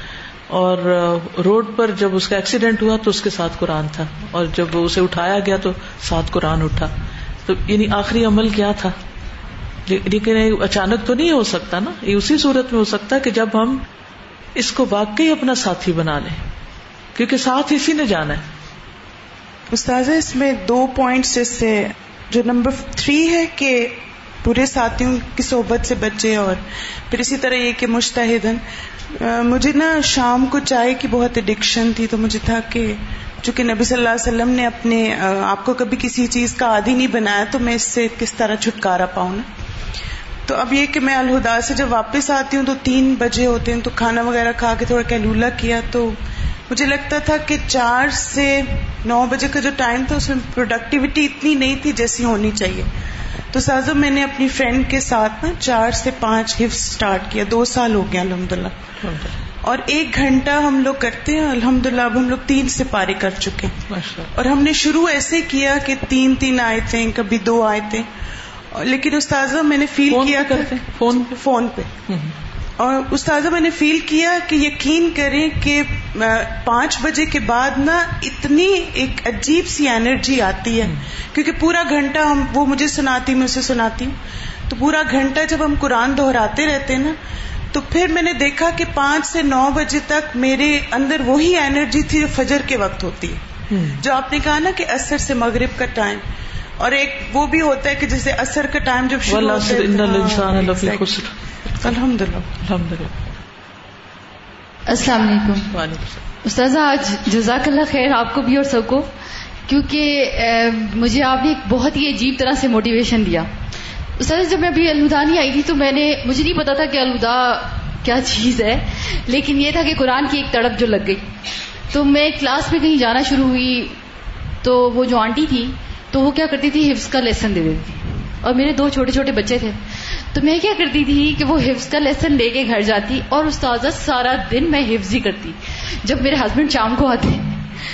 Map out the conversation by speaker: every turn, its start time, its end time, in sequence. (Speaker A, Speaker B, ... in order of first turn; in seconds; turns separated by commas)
Speaker A: 0.5-6.9, Speaker A: 7.5-8.9, Speaker A: 9.8-13.8, Speaker A: 14.6-16.4, Speaker A: 17.1-18.4, Speaker B: 19.7-28.6, Speaker B: 29.2-39.5, Speaker B: 40.5-46.1, Speaker B: 46.7-52.9, Speaker B: 53.5-58.7, Speaker A: 59.0-59.3, Speaker B: 59.6-63.8, Speaker A: 63.9-64.3, Speaker B: 64.3-68.1, Speaker B: 68.7-71.9, Speaker A: 70.1-71.4, Speaker A: 72.1-72.3, Speaker B: 72.8-84.1, Speaker B: 84.7-87.2, Speaker B: 87.7-93.4, Speaker A: 93.7-94.0, Speaker B: 94.0-96.2, Speaker B: 96.8-102.5, Speaker A: 99.3-101.9, Speaker A: 102.6-103.2, Speaker C: 104.9-105.7, Speaker A: 105.7-106.2, Speaker C: 106.4-109.1, Speaker C: 109.7-113.5, Speaker C: 114.2-121.3, Speaker C: 121.9-124.0, Speaker C: 124.6-129.8, Speaker C: 130.3-137.6